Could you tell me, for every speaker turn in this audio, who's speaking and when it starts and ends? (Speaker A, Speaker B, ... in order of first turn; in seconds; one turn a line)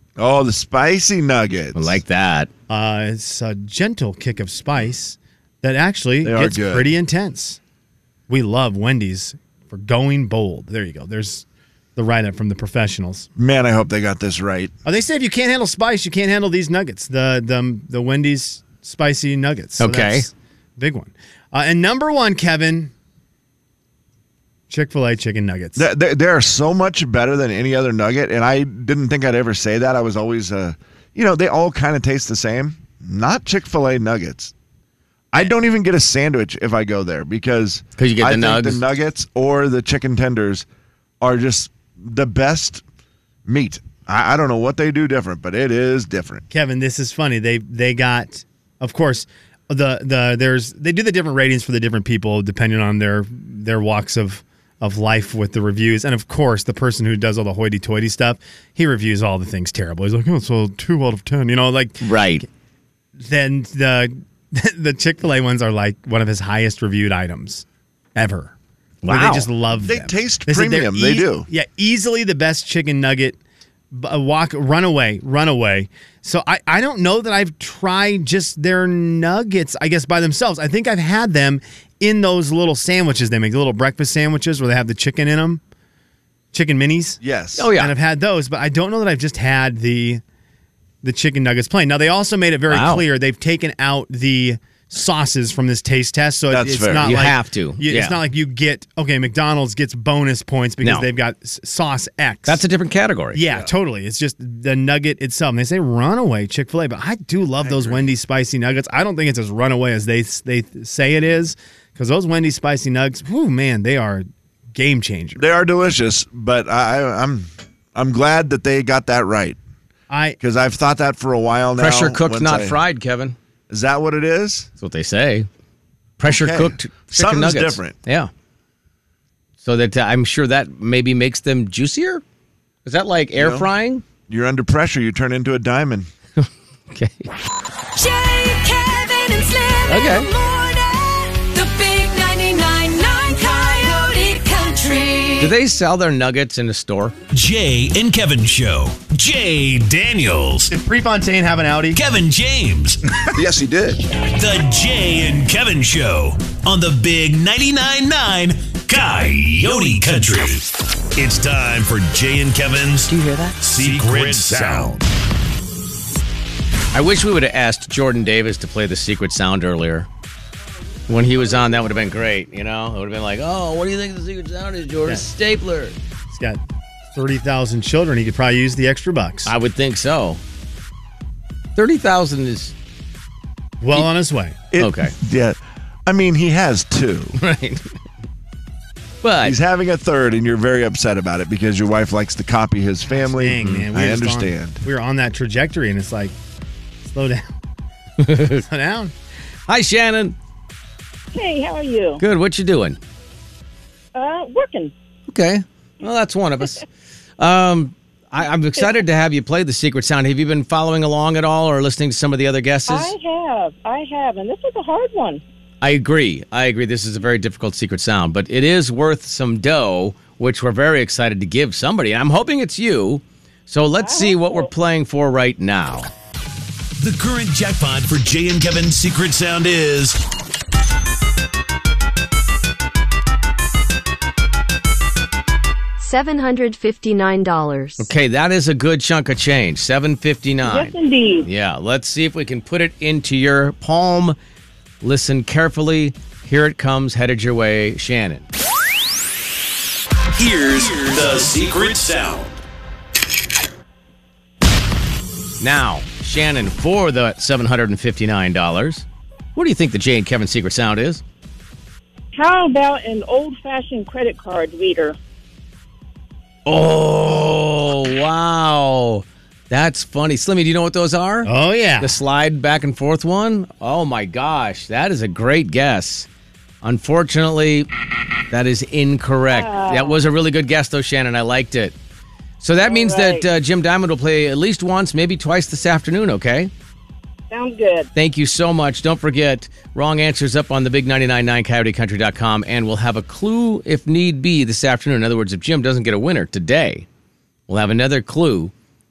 Speaker A: 0.2-2.0
Speaker B: 1.8-2.5
Speaker C: 2.7-7.6
Speaker A: 6.2-6.9
Speaker C: 8.3-11.4
Speaker C: 12.0-13.3
Speaker A: 13.4-14.7
Speaker C: 14.8-22.9
Speaker B: 19.8-20.3
Speaker C: 24.7-25.9
Speaker A: 25.8-34.5
Speaker A: 35.3-40.7
Speaker B: 38.0-38.8
Speaker A: 41.2-42.8
Speaker A: 43.5-46.4
Speaker C: 46.5-62.1
Speaker B: 62.0-62.5
Speaker C: 63.2-68.5
Speaker B: 69.0-69.5
Speaker C: 69.1-73.4
Speaker A: 69.8-71.5
Speaker C: 73.9-85.6
Speaker C: 86.5-87.2
Speaker A: 87.2-87.7
Speaker B: 87.6-87.9
Speaker C: 87.8-90.2
Speaker C: 91.0-102.6
Speaker B: 92.7-93.0
Speaker A: 96.5-97.2
Speaker B: 97.0-98.2
Speaker B: 102.5-103.4
Speaker C: 103.3-115.4
Speaker A: 107.6-108.1
Speaker A: 115.4-119.6
Speaker C: 120.1-120.4
Speaker A: 120.4-122.8
Speaker B: 121.8-123.3
Speaker A: 123.7-124.7
Speaker B: 124.8-125.5
Speaker B: 126.2-128.3
Speaker A: 126.2-128.0
Speaker B: 129.6-132.2
Speaker B: 132.8-134.1
Speaker A: 133.4-133.7
Speaker A: 134.3-136.1
Speaker B: 136.4-137.3
Speaker D: 138.0-145.5
Speaker B: 139.9-140.3
Speaker B: 145.4-147.2
Speaker E: 147.3-150.7
Speaker C: 150.7-152.0
Speaker E: 151.9-153.3
Speaker A: 153.5-153.8
Speaker E: 154.3-160.7
Speaker E: 161.2-165.1
Speaker D: 163.1-163.8
Speaker B: 166.9-170.1
Speaker B: 171.1-175.9
Speaker C: 176.3-176.6
Speaker C: 177.1-179.5
Speaker B: 179.5-180.4
Speaker B: 181.8-182.7
Speaker C: 183.8-184.6
Speaker A: 184.7-187.4
Speaker B: 184.8-185.1
Speaker B: 187.4-188.0
Speaker B: 189.2-189.6
Speaker A: 189.4-194.8
Speaker C: 193.1-196.3
Speaker B: 193.6-193.9
Speaker C: 197.0-197.5
Speaker B: 198.2-198.6
Speaker C: 198.3-199.1
Speaker B: 199.7-200.3
Speaker F: 201.3-202.2
Speaker B: 202.2-203.0
Speaker F: 204.2-204.9
Speaker B: 205.3-206.8
Speaker B: 207.4-213.1
Speaker F: 212.9-215.4
Speaker B: 215.8-226.1
Speaker F: 224.0-224.7
Speaker E: 227.0-230.2
Speaker D: 236.0-238.1
Speaker B: 238.0-240.9
Speaker F: 240.6-241.5
Speaker B: 241.4-244.4
Speaker B: 245.0-248.5
Speaker E: 250.3-252.5
Speaker B: 255.6-261.2
Speaker F: 262.4-265.2
Speaker B: 266.7-271.5
Speaker C: 271.4-272.2
Speaker B: 272.0-276.3
Speaker B: 276.8-277.9
Speaker B: 278.5-281.9
Speaker F: 279.5-280.2
Speaker B: 282.6-286.7
Speaker F: 282.8-283.4
Speaker F: 287.5-288.1
Speaker B: 288.1-297.1
Speaker B: 297.7-298.7